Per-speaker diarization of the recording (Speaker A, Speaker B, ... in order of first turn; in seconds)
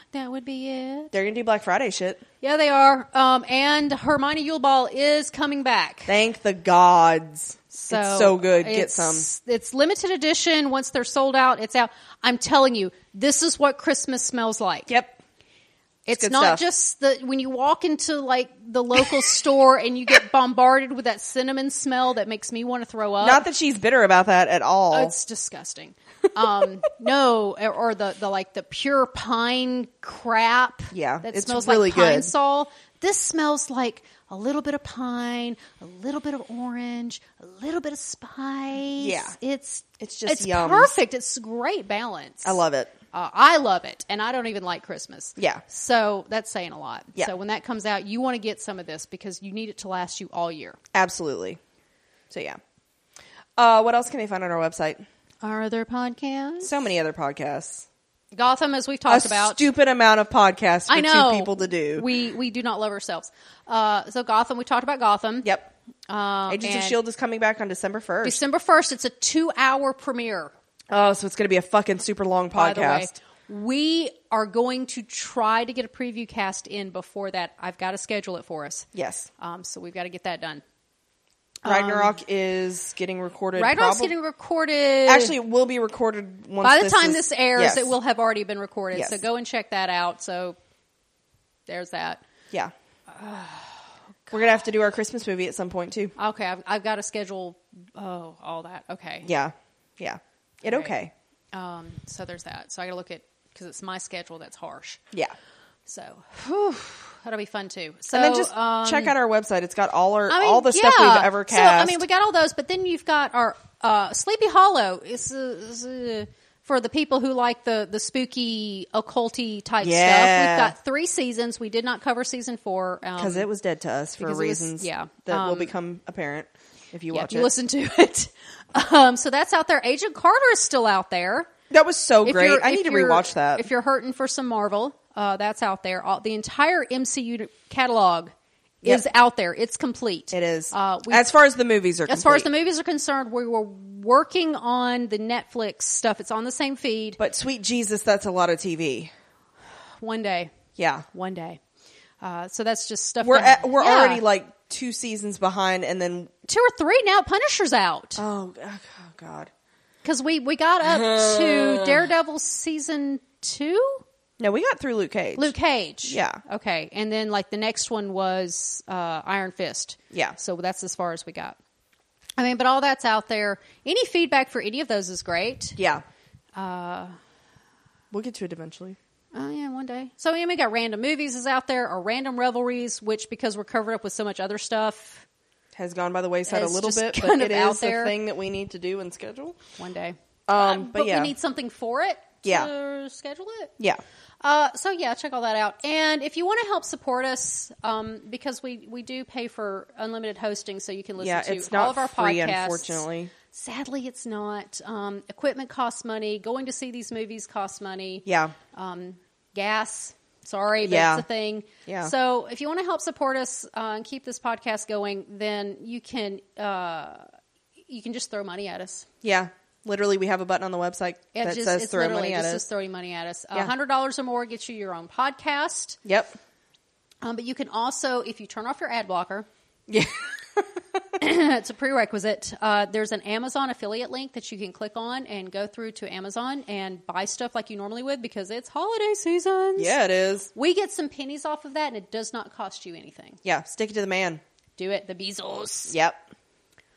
Speaker A: 0.1-1.1, 2.4-6.1, 7.7-14.9, 16.1-23.4, 24.9-42.6, 43.1-50.8, 55.4-56.7, 58.3-59.7, 60.9-65.5, 66.1-67.0, 68.2-70.5, 72.5-78.9, 79.4-80.6, 81.6-82.2, 83.6-85.4, 86.6-90.6, 91.7-92.2, 93.1-94.4, 96.2-99.3, 100.7-100.9, 101.5-105.0, 105.9-109.1, 110.3-123.5, 124.2-125.7, 127.1-131.5, 132.2-138.3, 138.8-141.3, 142.1-147.2, 150.0-150.5, 151.1-151.6, 152.2-154.2, 156.5-158.2, 160.0-164.0, 165.4-171.6, 172.4-175.8, 176.5-177.1, 179.3-185.2, 186.5-188.1, 189.8-193.7, 194.4-217.3, 217.9-219.1, 221.3-226.0, 227.2-229.5, 231.2-240.0, 240.6-243.4, 244.8-245.9
Speaker B: 1.1-2.2, 6.1-9.3, 14.9-15.2, 16.1-16.6, 23.2-25.2, 30.9-32.3, 39.0-39.4, 40.0-41.0, 42.4-42.9, 45.4-45.6, 50.9-51.6, 52.3-52.6, 53.6-55.0, 56.6-57.9, 59.1-62.1, 65.4-65.7, 66.5-68.4, 70.9-73.1, 78.9-79.3, 81.6-84.1, 85.0-87.9, 88.9-89.2, 94.3-96.1, 99.2-101.1, 108.1-112.0, 119.8-120.7, 123.2-127.5, 131.7-133.7, 140.3-142.5, 147.2-149.1, 150.8-151.1, 153.2-156.3, 158.2-159.5, 160.8-162.0, 164.4-166.4, 170.1-170.4, 175.8-176.0, 178.1-179.0, 185.8-189.6, 190.5-191.3, 192.4-192.7, 201.2-203.3, 208.3-208.6, 210.8-211.2, 211.9-212.1, 219.2-222.6, 226.1-226.4, 229.9-230.7, 239.8-240.5, 243.4-244.4, 245.9-246.2